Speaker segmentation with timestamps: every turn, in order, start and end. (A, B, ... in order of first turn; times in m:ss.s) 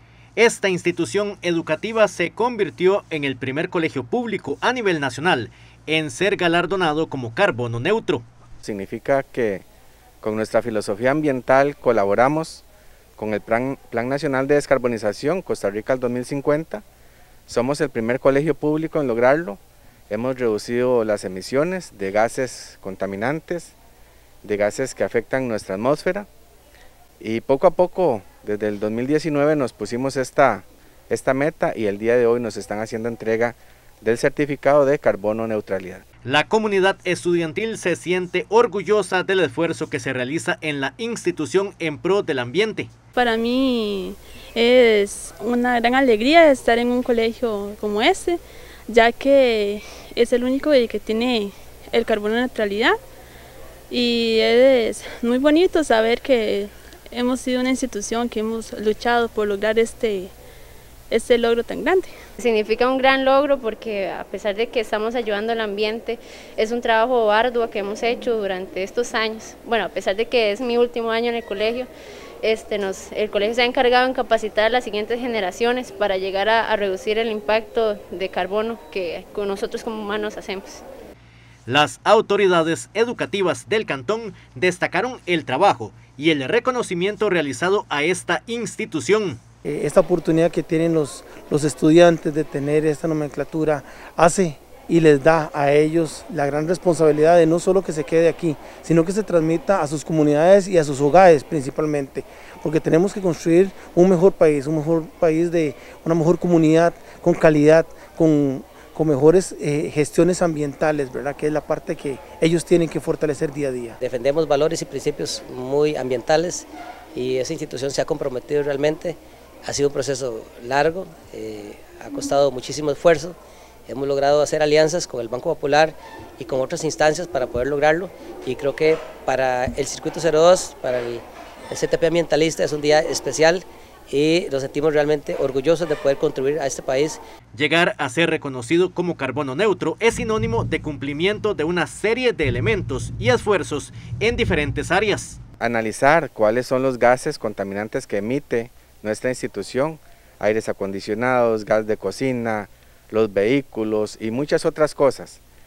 0:00.4-0:08.2 A
0:08.6-0:09.6 B
0:10.2-0:12.6 B
0:13.2-0:16.8 B
0:17.5-0:23.7 B
0:24.4-0:26.3 B
0:27.2-0:36.0 B
0:36.2-0:42.9 A
0:43.2-0:53.0 C
0:53.9-1:00.3 C
1:01.1-1:02.1 C
1:02.4-1:11.9 D
1:12.4-1:20.8 D
1:21.7-1:29.4 A
1:29.7-1:54.0 E
1:54.0-2:17.2 F
2:17.5-2:25.4 A
2:25.6-2:35.4 B